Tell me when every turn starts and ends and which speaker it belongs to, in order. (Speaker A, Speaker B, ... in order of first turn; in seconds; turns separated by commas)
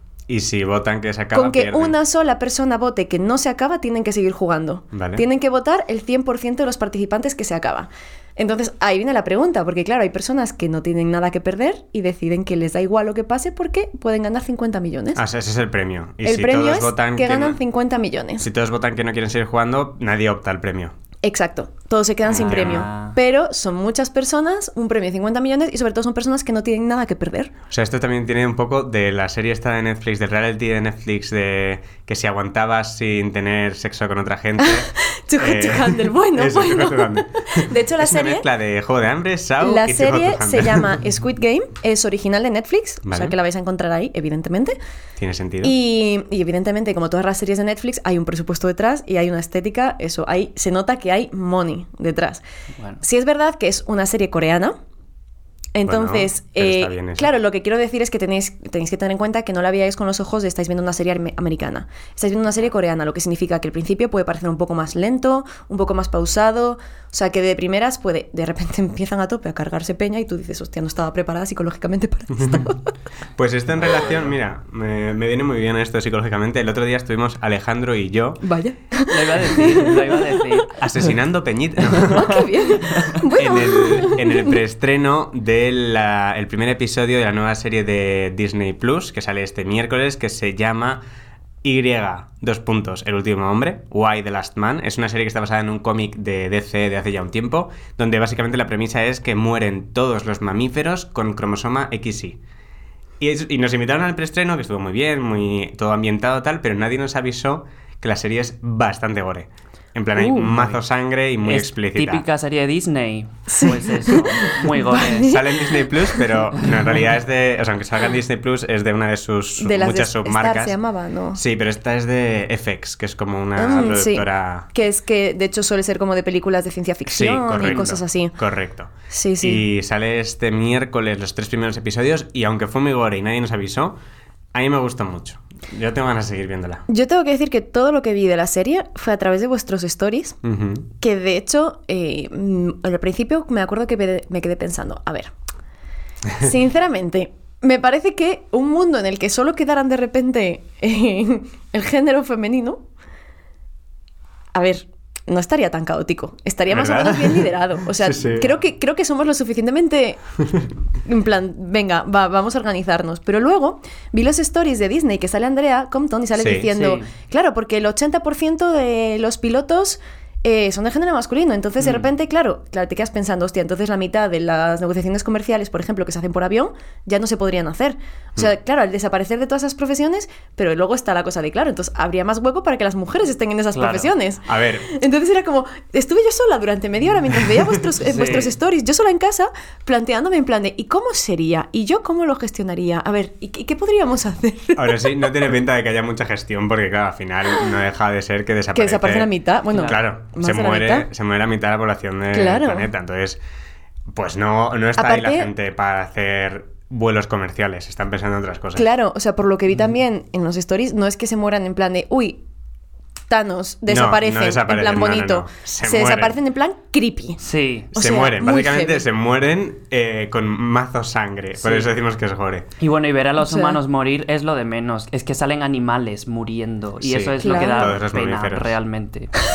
Speaker A: 0.3-1.9, Speaker B: 1.3-15.2, Speaker A: 4.9-5.2, Speaker A: 15.2-17.6, Speaker B: 16.2-18.5, Speaker A: 18.4-20.9, Speaker B: 21.2-27.5, Speaker A: 22.3-22.9, Speaker C: 22.3-23.1, Speaker A: 27.7-40.9, Speaker B: 34.6-38.5, Speaker B: 39.6-44.8, Speaker A: 43.0-43.4, Speaker A: 45.2-45.8, Speaker B: 45.6-52.4, Speaker B: 53.0-54.8, Speaker B: 55.7-72.9, Speaker A: 55.9-57.3, Speaker A: 73.4-78.4, Speaker C: 73.8-74.3, Speaker B: 78.4-80.6, Speaker C: 79.1-80.8, Speaker A: 80.8-82.4, Speaker B: 82.0-84.5, Speaker C: 82.0-82.4, Speaker A: 83.3-91.0, Speaker A: 91.6-102.4, Speaker A: 103.2-112.2, Speaker B: 110.2-110.5, Speaker C: 110.4-110.8, Speaker C: 111.4-115.4, Speaker B: 113.5-116.4, Speaker A: 115.0-120.8, Speaker B: 119.6-121.4, Speaker A: 121.3-124.7, Speaker B: 123.5-128.3, Speaker A: 127.1-134.0, Speaker B: 129.1-129.6, Speaker A: 134.5-136.8, Speaker B: 136.9-140.4, Speaker A: 140.4-140.9, Speaker B: 141.0-145.3, Speaker B: 146.4-152.8, Speaker B: 154.5-160.2, Speaker A: 156.7-158.6, Speaker B: 161.0-195.4, Speaker A: 166.3-166.7, Speaker C: 166.7-167.1, Speaker C: 171.8-172.1, Speaker C: 183.7-184.1, Speaker A: 184.4-184.9, Speaker C: 188.0-188.5, Speaker A: 194.8-203.4, Speaker B: 198.7-201.1, Speaker C: 199.7-200.0, Speaker B: 202.3-202.9, Speaker A: 204.1-208.9, Speaker B: 205.0-205.5, Speaker B: 208.7-212.4, Speaker B: 213.3-217.4, Speaker A: 213.9-216.4, Speaker C: 217.4-217.9, Speaker B: 217.9-219.0, Speaker A: 217.9-222.7, Speaker C: 221.6-221.9, Speaker C: 222.8-229.4, Speaker B: 223.4-223.8, Speaker A: 227.0-228.8, Speaker B: 227.4-227.9